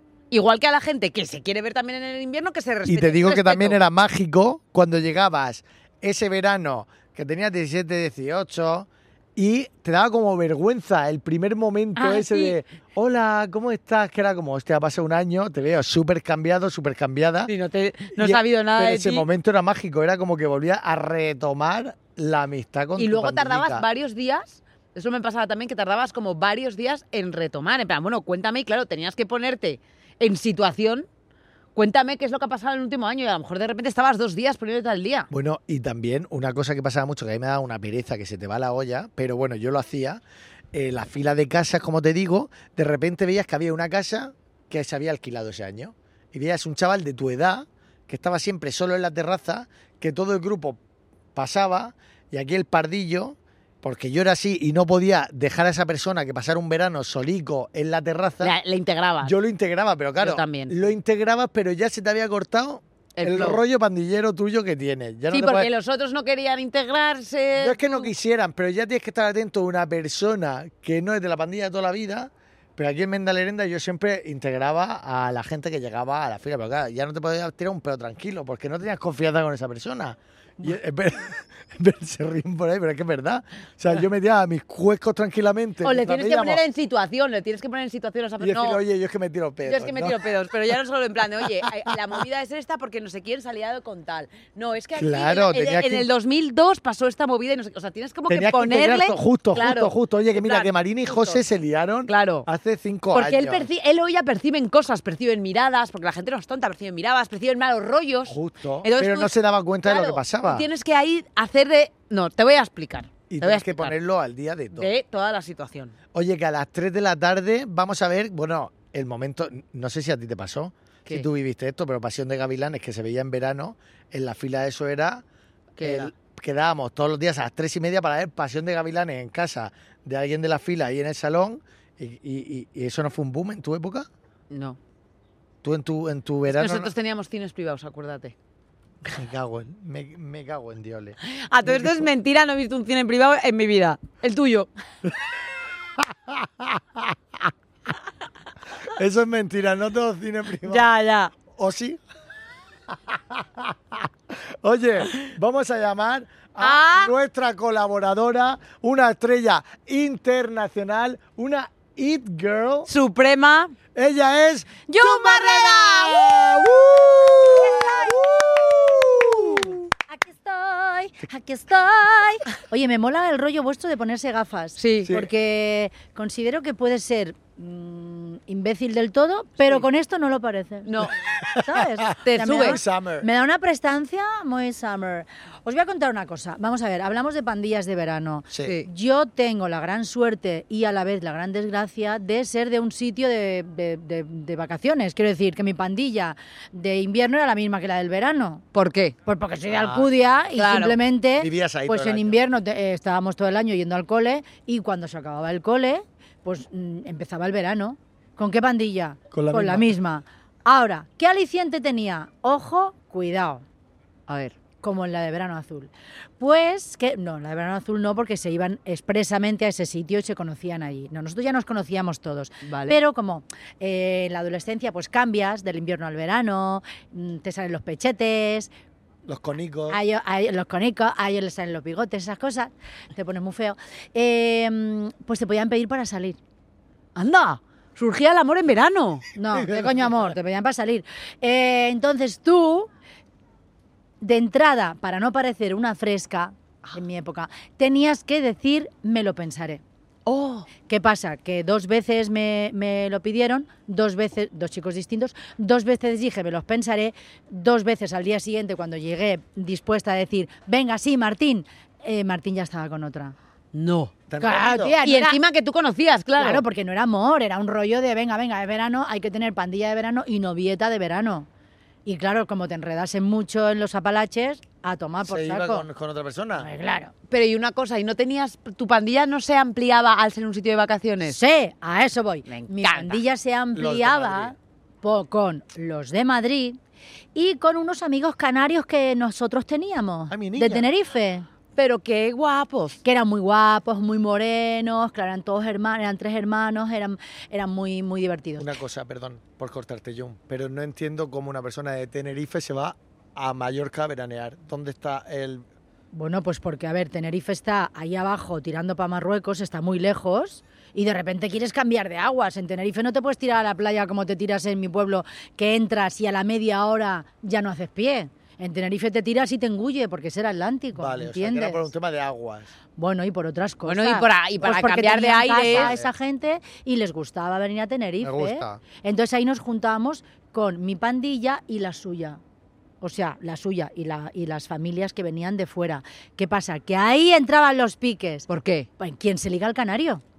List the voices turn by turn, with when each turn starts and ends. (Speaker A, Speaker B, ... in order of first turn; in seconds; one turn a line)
Speaker A: 0.3-3.8
Speaker B: 2.9-17.5
Speaker A: 12.0-12.6
Speaker A: 17.5-19.3
Speaker B: 18.2-23.9
Speaker A: 23.0-31.1
Speaker A: 31.8-35.3
Speaker B: 35.3-40.2
Speaker B: 40.7-50.8
Speaker B: 51.4-58.5
Speaker A: 58.4-59.4
Speaker B: 59.2-65.7
Speaker A: 60.2-60.8
Speaker A: 63.1-63.6
Speaker A: 65.3-68.1
Speaker B: 67.6-86.6
Speaker A: 85.8-88.8
Speaker B: 88.4-90.2
Speaker A: 89.7-101.4
Speaker B: 95.0-96.1
Speaker B: 98.3-103.7
Speaker A: 102.1-102.5
Speaker A: 103.1-114.0
Speaker B: 108.3-110.7
Speaker B: 113.3-114.9
Speaker A: 114.8-115.9
Speaker B: 116.1-125.2
Speaker A: 125.8-126.1
Speaker B: 125.8-134.1
Speaker A: 134.5-134.8
Speaker B: 135.6-136.9
Speaker A: 136.5-138.3
Speaker B: 139.1-142.1
Speaker A: 141.3-144.7
Speaker B: 146.0-147.2
Speaker B: 148.9-150.8
Speaker A: 150.7-151.3
Speaker B: 151.5-152.0
Speaker B: 152.9-162.9
Speaker A: 156.6-157.1
Speaker A: 162.9-163.8
Speaker B: 163.9-169.8
Speaker A: 164.9-166.6
Speaker C: 167.5-168.3
Speaker C: 169.3-198.6
Speaker A: 174.8-175.1
Speaker A: 180.9-181.2
Speaker B: 181.4-183.3
Speaker A: 182.2-182.8
Speaker A: 188.6-188.9
Speaker A: 198.7-199.2
Speaker C: 199.3-213.6
Speaker B: 199.7-200.1
Speaker A: 200.6-201.0
Speaker B: 201.4-202.4
Speaker B: 209.3-210.0
Speaker A: 214.3-214.6
Speaker C: 214.8-228.7
Speaker A: 222.7-223.0
Speaker B: 229.3-230.0
Speaker C: 229.9-236.4
Speaker A: 237.2-239.2
Speaker C: 239.4-242.9
Speaker B: 239.5-240.3
Speaker C: 244.2-249.8
Speaker A: 250.3-250.7
Speaker C: 250.9-263.4
Speaker A: 263.7-264.1
Speaker B: 264.3-265.0
Speaker C: 264.4-265.4
Speaker A: 265.0-266.6
Speaker C: 266.4-271.5
Speaker C: 272.1-275.9
Speaker B: 275.2-276.7
Speaker C: 276.6-277.1
Speaker A: 277.3-281.4
Speaker C: 281.2-286.8
Speaker A: 282.5-283.2
Speaker B: 283.7-284.6
Speaker C: 287.4-291.5
Speaker B: 290.3-290.9
Speaker A: 291.8-293.0
Speaker C: 293.0-298.7
Speaker B: 298.6-305.6
Speaker C: 306.1-321.9
Speaker B: 321.0-322.7
Speaker C: 323.0-332.4
Speaker A: 323.9-325.9
Speaker B: 325.7-326.1
Speaker B: 328.2-328.8
Speaker C: 333.0-338.5
Speaker A: 338.5-338.9
Speaker C: 339.0-340.2